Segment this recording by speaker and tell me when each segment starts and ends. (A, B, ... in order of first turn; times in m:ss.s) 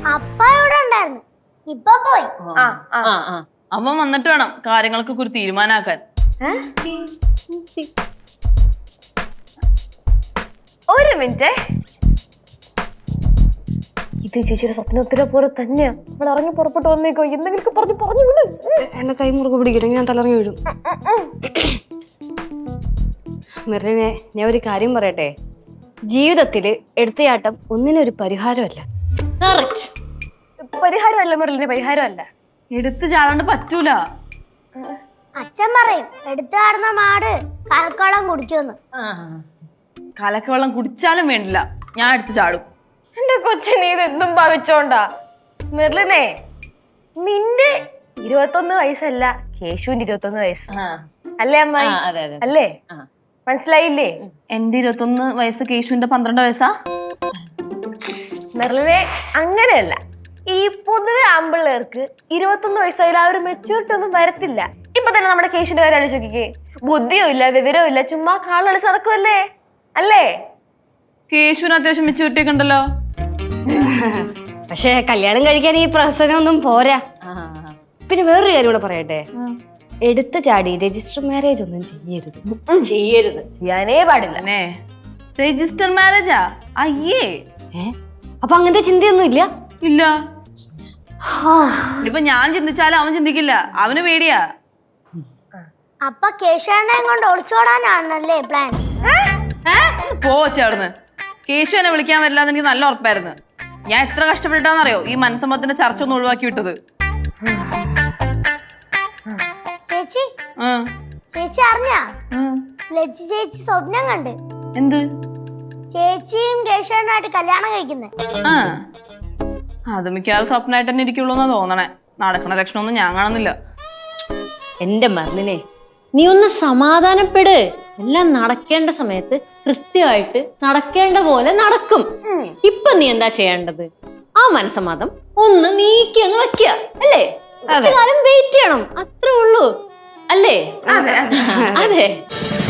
0:00.1-0:02.3 A
0:02.6-0:03.1 B
0:03.0-0:03.4 C
0:03.7-0:06.0 D
0:07.5-0:07.9 C
0:10.9-0:11.5 B
0:14.2-0:18.8 B
0:18.8-0:20.6 E
0:20.8-0:21.3 B
0:23.7-0:25.3 E
0:26.1-0:28.8 E
0:29.4-0:29.9 C
0:30.6-0:32.3 B
0:32.7-0:34.0 D
0:35.4-0:38.8 A
0:39.0-0:39.4 C
0:40.2-0:42.6 D
0:43.2-0:45.0 B
0:45.7-0:46.3 B
0:47.2-0:50.7 B
0:51.4-0:52.7 B
0:51.8-0:53.0 C
0:53.5-0:54.1 B
0:54.5-0:56.7 D
0:58.5-1:09.4 B
1:10.0-1:10.3 B
1:11.3-1:12.8 D
1:13.7-1:17.0 E
1:17.2-1:17.7 C
1:18.1-1:19.2 E
1:20.0-1:22.4 E
1:22.8-1:23.4 C
1:23.6-1:24.4 B
1:24.3-1:24.7 D
1:25.4-1:27.3 D
1:27.7-1:29.5 E
1:29.8-1:30.1 D
1:31.3-1:31.9 C
1:32.0-1:34.4 D
1:36.1-1:38.8 A
1:40.1-1:40.9 D
1:41.5-1:43.4 D
1:43.9-1:46.8 D
1:47.4-1:47.9 B
1:49.9-1:50.3 A
1:51.3-1:52.0 A
1:52.9-1:54.4 A
1:54.8-1:55.0 D
1:55.9-1:58.1 A
1:58.4-1:58.8 D
1:59.9-2:03.5 D
2:04.8-2:05.6 C
2:06.2-2:12.0 C
2:12.2-2:12.5 B
2:12.6-2:13.9 C
2:14.4-2:19.7 C
2:17.7-2:18.0 E
2:20.3-2:20.6 C
2:20.9-2:22.0 E
2:20.9-2:21.4 B
2:21.3-2:22.1 C